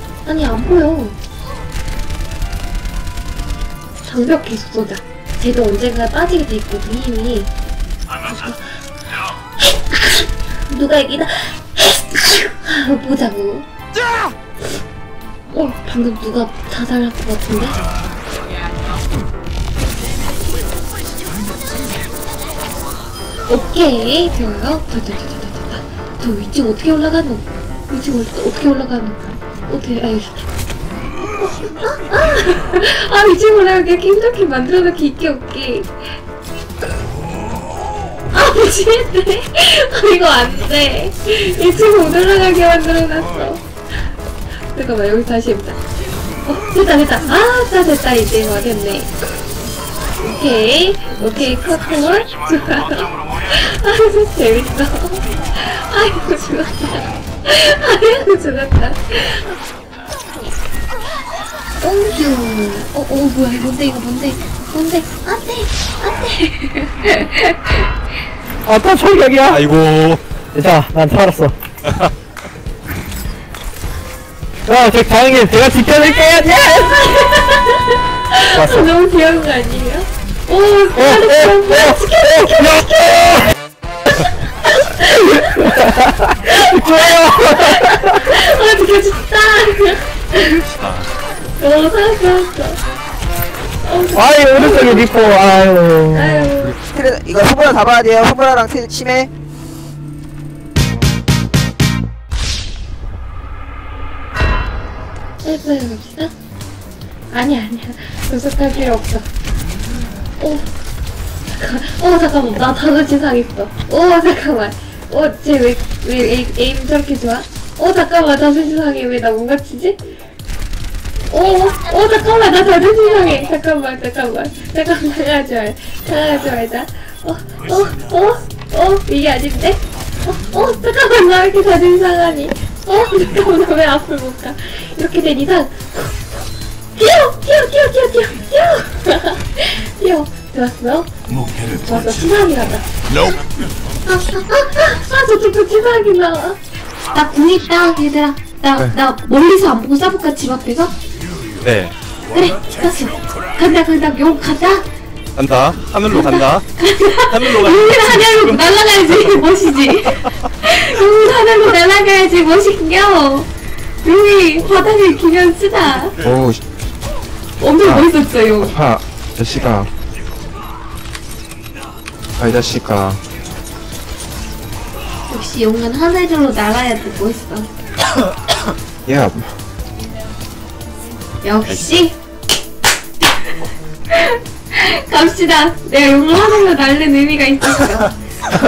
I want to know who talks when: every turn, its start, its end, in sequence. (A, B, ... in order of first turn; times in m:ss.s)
0:00.2-0:01.2 A
0:04.0-0:07.5 A
0:08.2-0:08.8 A
0:09.7-0:13.7 A
0:15.5-0:17.8 A
0:23.5-0:30.5 A
0:31.4-0:36.2 A
0:38.3-0:43.6 A
0:44.7-0:45.8 A
0:46.4-0:49.1 A
0:50.2-0:59.5 A
1:01.8-1:07.8 A
1:08.7-1:09.6 B
1:09.5-1:10.2 C
1:10.5-1:11.6 B
1:11.8-1:12.1 C
1:14.7-1:16.9 B
1:16.2-1:23.5 A
1:18.5-1:18.9 B
1:21.0-1:23.3 B
1:24.2-1:25.9 A
1:25.4-1:28.2 B
1:26.4-1:30.6 A
1:30.7-1:31.1 C
1:31.6-1:32.8 A
1:33.8-1:35.4 A
1:34.2-1:36.5 B
1:36.1-1:36.8 A
1:36.8-1:39.3 D
1:45.4-1:46.3 A
1:47.3-1:49.3 A
1:50.4-1:50.7 A
1:51.5-2:00.0 A
2:01.3-2:16.3 A
2:17.0-2:22.9 A
2:24.0-2:26.6 A
2:27.1-2:31.0 A
2:31.6-2:31.9 C
2:32.3-2:34.9 A
2:35.4-2:36.6 C
2:36.1-2:43.5 A
2:37.3-2:38.7 C
2:44.0-2:46.2 A
2:46.2-2:46.6 E
2:47.6-2:48.8 A
2:47.8-2:49.9 E
2:52.4-2:53.2 E
2:55.3-2:57.7 A
2:59.1-2:59.5 E
3:01.4-3:02.2 A
3:04.1-3:08.1 A